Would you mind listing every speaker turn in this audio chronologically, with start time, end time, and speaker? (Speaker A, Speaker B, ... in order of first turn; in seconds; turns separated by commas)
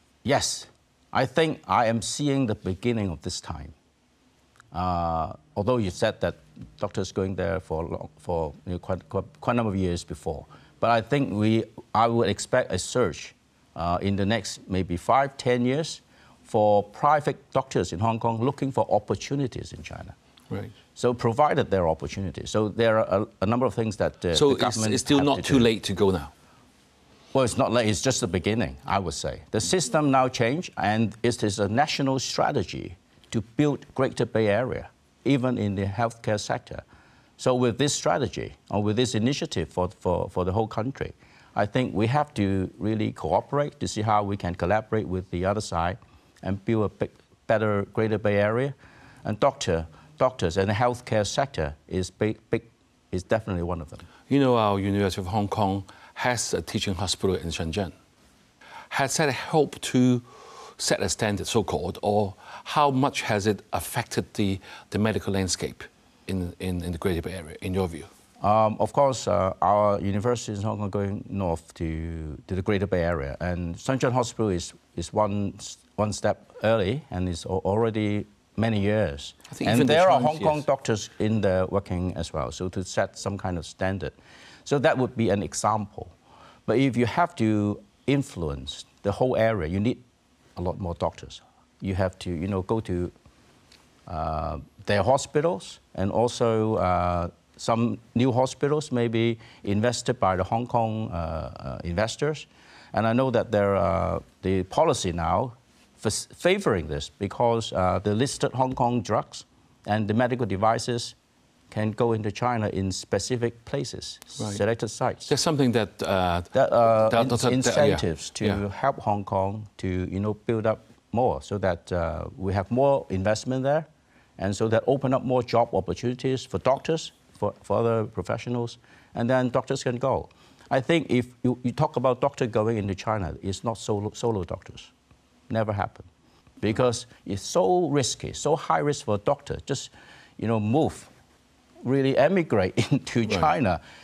Speaker A: 0.2-3.7, Speaker A: 4.7-20.1, Speaker A: 20.9-25.7, Speaker B: 24.3-26.3, Speaker A: 27.3-36.8, Speaker A: 37.4-54.1, Speaker B: 54.3-57.9, Speaker B: 58.9-68.1, Speaker A: 68.4-84.1, Speaker B: 79.5-80.6, Speaker A: 84.7-86.1, Speaker A: 86.7-90.0, Speaker A: 90.5-93.1, Speaker A: 94.1-111.1, Speaker A: 111.7-115.3, Speaker B: 115.3-118.6, Speaker A: 116.5-134.9, Speaker A: 135.5-136.1, Speaker A: 136.6-141.1, Speaker A: 141.8-143.8